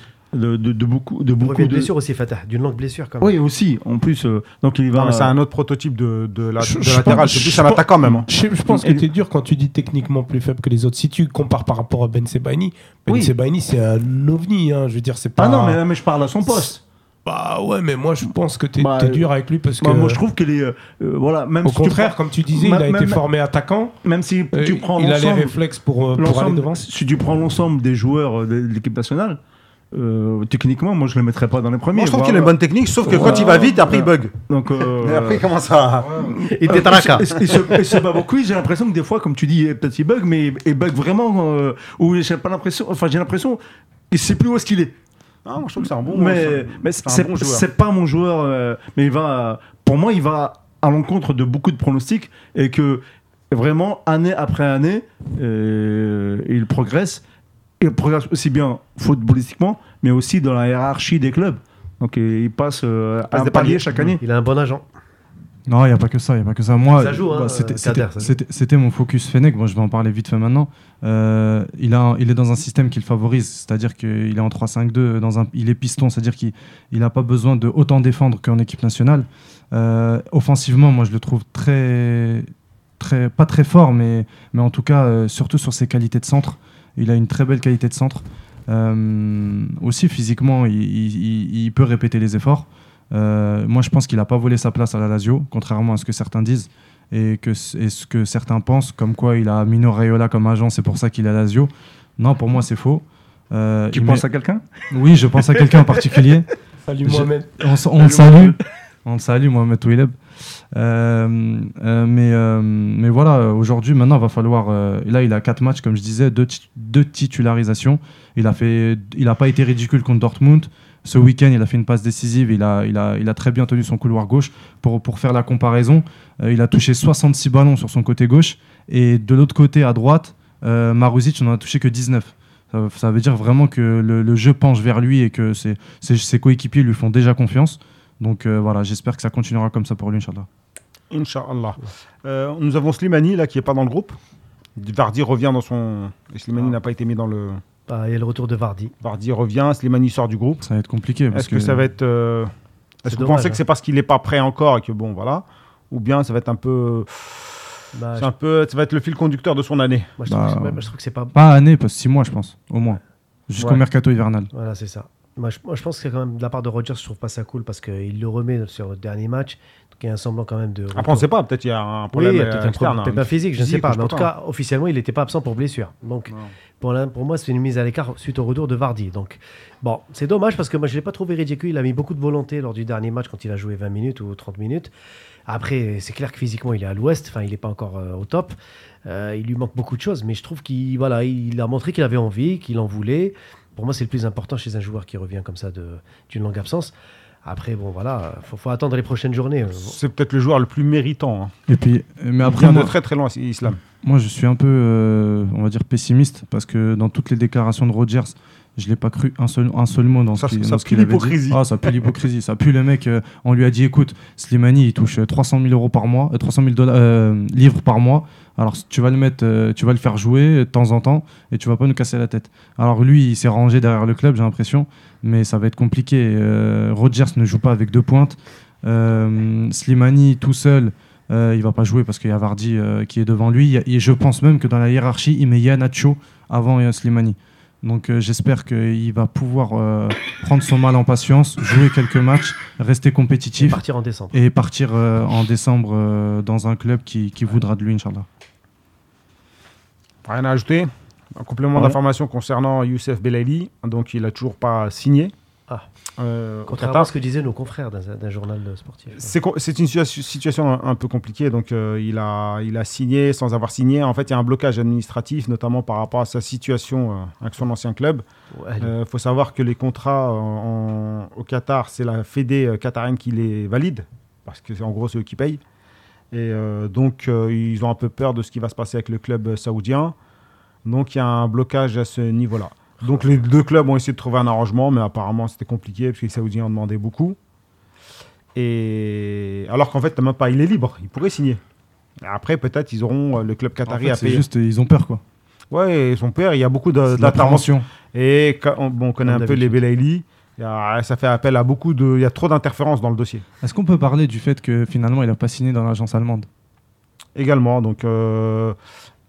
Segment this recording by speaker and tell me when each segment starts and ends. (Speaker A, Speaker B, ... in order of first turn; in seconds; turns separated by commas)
Speaker A: 0.3-1.9, Speaker B: 1.4-3.3, Speaker A: 3.2-5.4, Speaker C: 4.9-8.3, Speaker D: 6.6-15.8, Speaker A: 8.7-9.1, Speaker A: 13.1-13.3, Speaker A: 15.4-16.8, Speaker D: 17.2-20.2, Speaker A: 18.8-23.2, Speaker D: 21.6-23.9, Speaker A: 24.0-25.6, Speaker D: 24.5-26.8, Speaker A: 26.2-29.4, Speaker A: 29.9-35.5, Speaker C: 31.9-34.3, Speaker C: 34.8-36.3, Speaker E: 36.0-36.4, Speaker A: 36.3-43.6, Speaker B: 36.4-37.8, Speaker A: 44.1-44.9, Speaker C: 45.5-47.6, Speaker A: 46.0-57.2, Speaker A: 57.8-64.2, Speaker C: 63.3-64.1, Speaker B: 64.2-64.8, Speaker E: 65.7-104.2, Speaker B: 66.9-68.3, Speaker A: 103.9-104.6, Speaker E: 104.9-106.5, Speaker D: 106.8-107.7, Speaker E: 107.0-110.2, Speaker A: 108.0-108.6, Speaker E: 110.7-140.5, Speaker C: 141.1-144.2, Speaker C: 144.8-147.6, Speaker B: 147.9-148.9, Speaker C: 149.0-150.6, Speaker E: 150.6-151.8, Speaker C: 151.3-152.5, Speaker C: 153.0-157.6, Speaker B: 153.1-153.6, Speaker B: 157.9-158.3, Speaker C: 158.2-160.2, Speaker B: 160.2-161.3, Speaker E: 160.3-160.8, Speaker E: 161.3-164.5, Speaker B: 164.5-171.3, Speaker C: 170.9-174.3, Speaker B: 172.1-184.9, Speaker B: 185.5-196.9, Speaker B: 197.4-200.0, Speaker C: 199.8-201.5, Speaker E: 201.7-202.9, Speaker C: 202.4-203.8, Speaker E: 204.0-243.8, Speaker C: 210.4-211.6, Speaker B: 243.6-244.4, Speaker E: 244.3-248.3, Speaker C: 250.2-255.3, Speaker C: 256.2-257.1, Speaker B: 256.7-259.3, Speaker C: 259.1-268.2, Speaker B: 268.5-268.9, Speaker C: 268.8-275.6, Speaker C: 276.3-280.1, Speaker C: 280.8-287.4, Speaker C: 288.5-291.6, Speaker C: 292.2-294.4, Speaker E: 293.9-295.2, Speaker C: 295.7-303.4, Speaker E: 297.1-297.9, Speaker B: 299.2-299.8, Speaker E: 303.6-306.5, Speaker C: 307.3-308.8